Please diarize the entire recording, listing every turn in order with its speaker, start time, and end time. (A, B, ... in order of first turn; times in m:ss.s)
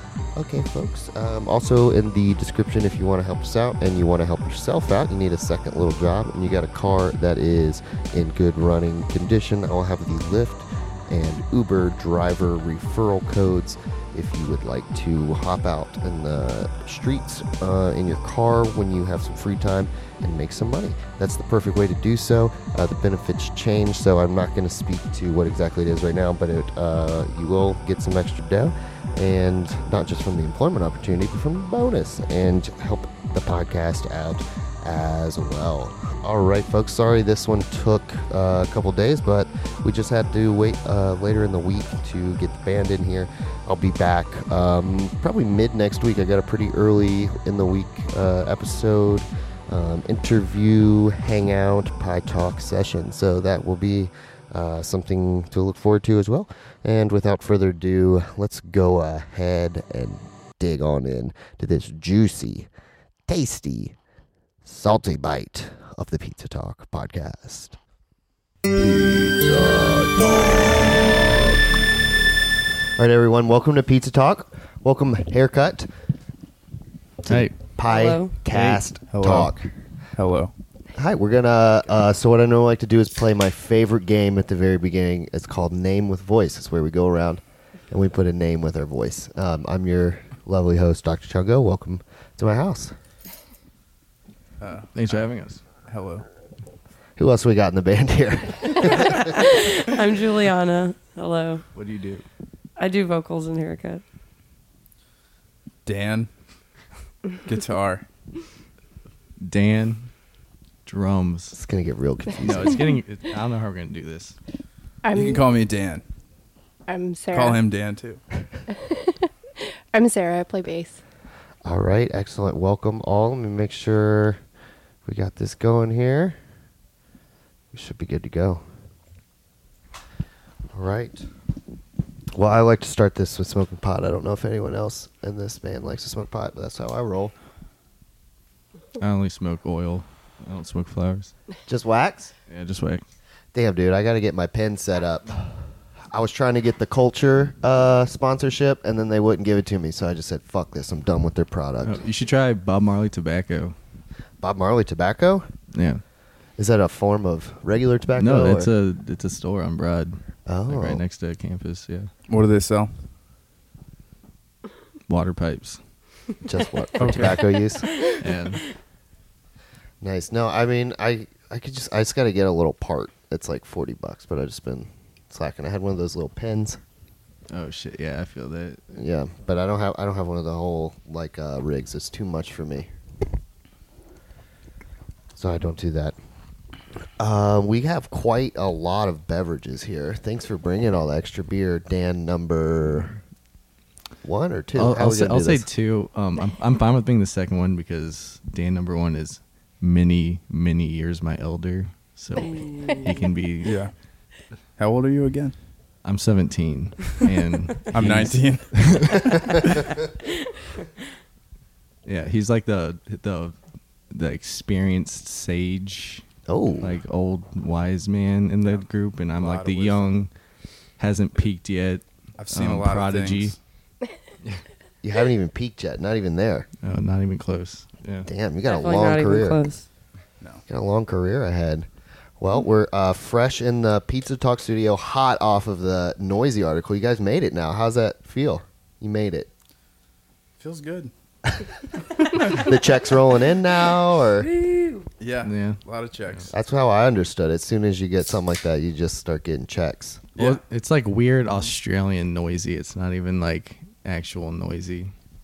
0:00.4-1:02.7 A
1:03.3-1:03.9 A
1:04.6-1:07.8 A
1:08.7-1:11.6 A
1:13.0-1:15.9 A
1:17.2-1:19.7 A
1:17.3-1:17.5 B
1:17.8-1:18.3 C
1:18.5-1:18.8 B
1:19.1-1:19.5 D
1:20.2-1:20.5 D
1:21.0-1:32.9 A
1:34.6-1:35.3 D
1:34.9-1:35.6 B
1:35.8-1:36.2 D
1:37.2-1:39.3 A
1:39.1-1:41.6 C
1:41.7-1:42.2 B
1:42.8-1:44.0 C
1:45.8-1:46.3 D
1:47.4-1:48.0 D
1:49.4-1:50.1 B
1:50.8-1:51.6 B
1:51.5-1:52.8 A
1:52.4-1:54.4 B
1:55.0-1:55.5 E
1:55.1-1:56.0 D
1:56.9-1:57.6 E
1:57.3-1:58.2 D
1:58.8-1:59.2 E
1:59.9-2:01.0 E
2:01.6-2:04.4 A
2:05.0-2:06.4 A
2:07.7-2:08.6 A
2:10.7-2:11.2 A
2:12.3-2:17.3 A
2:19.0-2:21.3 B
2:21.7-2:22.3 A
2:22.5-2:23.0 B
2:23.5-2:25.5 A
2:26.1-2:32.0 A
2:31.8-2:33.7 B
2:34.4-2:35.4 A
2:35.7-2:36.0 B
2:36.6-2:38.7 A
2:38.2-2:42.1 B
2:40.4-2:41.0 A
2:42.3-2:42.9 D
2:45.1-2:45.8 B
2:46.4-2:47.9 A
2:47.0-2:47.3 D
2:47.0-2:47.3 B
2:48.1-2:48.6 B
2:50.0-2:56.8 A
2:57.5-2:58.8 B
2:58.9-3:02.9 A
3:05.4-3:06.1 A
3:07.2-3:13.2 A
3:14.2-3:15.7 A
3:14.7-3:23.8 B
3:22.5-3:23.1 C
3:23.6-3:23.9 D
3:24.8-3:25.5 D
3:26.0-3:29.3 B
3:27.9-3:29.8 D
3:32.0-3:33.6 B
3:34.1-3:36.2 B
3:36.5-3:36.9 A
3:36.8-3:40.3 B
3:39.4-3:40.2 D
3:41.0-3:43.6 B
3:42.4-3:43.6 D
3:45.0-3:46.7 A
3:46.8-3:48.3 B
3:48.2-3:49.6 A
3:48.6-3:49.9 C
3:50.7-3:51.9 A
3:52.4-3:59.5 A
4:00.6-4:01.1 D
4:02.3-4:02.7 D
4:02.5-4:04.5 A
4:04.4-4:05.1 C
4:05.2-4:06.5 D
4:05.4-4:05.8 B
4:06.5-4:10.2 A
4:10.4-4:10.6 D
4:10.4-4:15.1 B